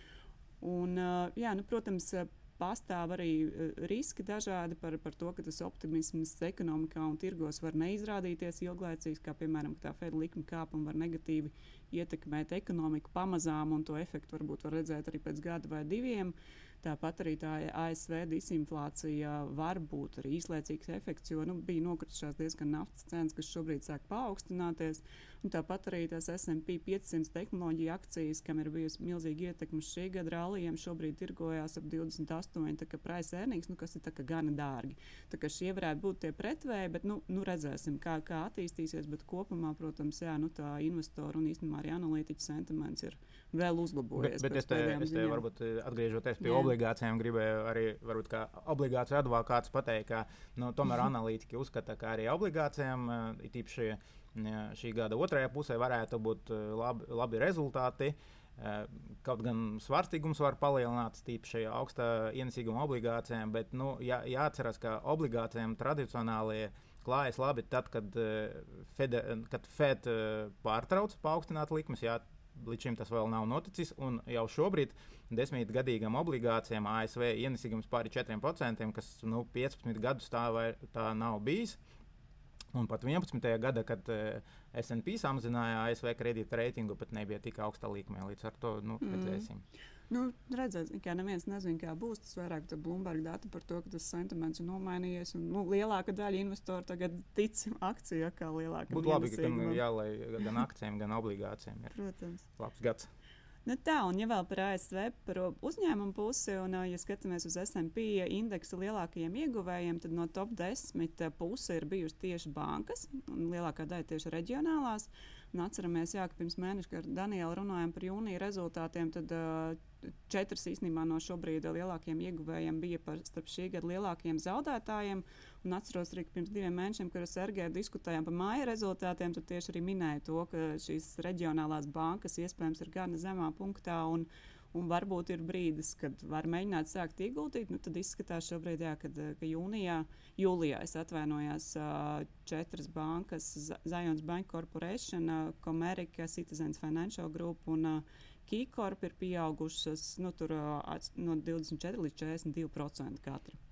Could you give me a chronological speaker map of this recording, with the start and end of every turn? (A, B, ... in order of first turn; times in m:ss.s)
0:00.6-0:45.4 A
0:44.2-1:21.8 B
0:46.4-0:46.7 A
1:22.7-1:29.6 B
1:29.0-1:29.5 A
1:30.1-1:39.8 A
1:38.9-1:41.9 B
1:41.9-1:42.4 A
1:42.5-1:43.1 B
1:43.6-2:33.6 A